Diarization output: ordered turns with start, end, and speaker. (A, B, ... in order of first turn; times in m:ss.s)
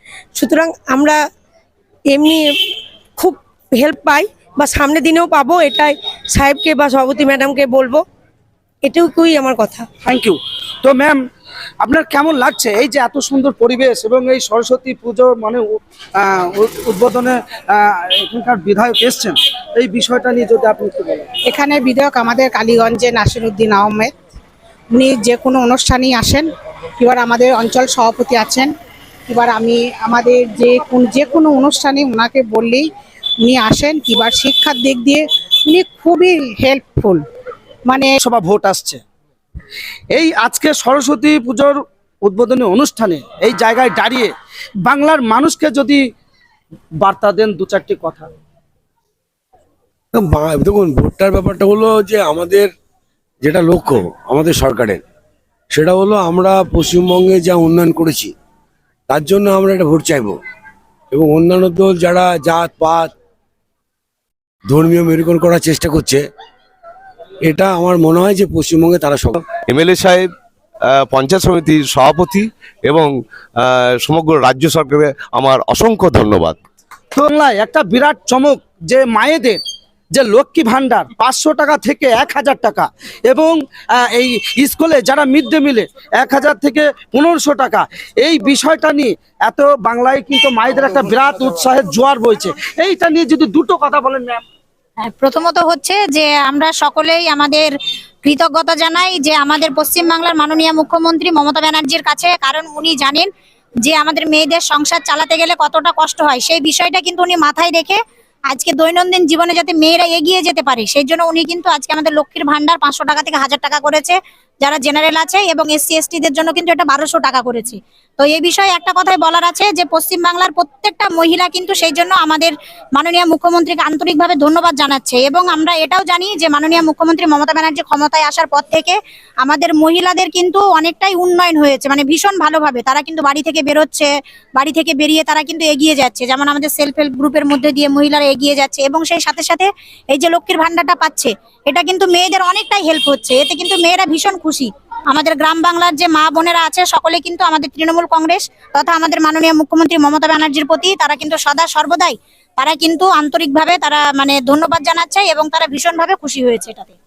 0:00.3-0:01.2 A
0:02.1-0:02.4 A
0:03.2-0:08.0 A
0:08.8-0:09.8 A
0:10.0-0:11.2 B
0:11.8-0:15.6 B
0:16.2-0:21.3 B
0:21.4-0:24.1 C
0:24.9-0:26.5 C
0:27.0-0:28.7 C
0:29.3-0:32.8 C
0:33.4-0:37.2 C
0:38.2-0:39.0 B
0:40.1-0:44.3 B
0:44.8-0:46.0 B
0:47.0-0:48.3 B
0:50.1-0:52.7 D
0:53.4-0:55.0 D
0:55.7-0:58.3 D
0:59.1-1:00.4 D
1:01.1-1:03.1 D
1:04.7-1:06.2 D
1:07.4-1:09.4 D
1:09.7-1:10.3 E
1:10.9-1:16.6 E
1:17.1-1:19.6 B
1:20.1-1:34.4 B
1:35.0-1:37.7 F
1:38.2-1:43.3 F
1:43.8-2:37.0 F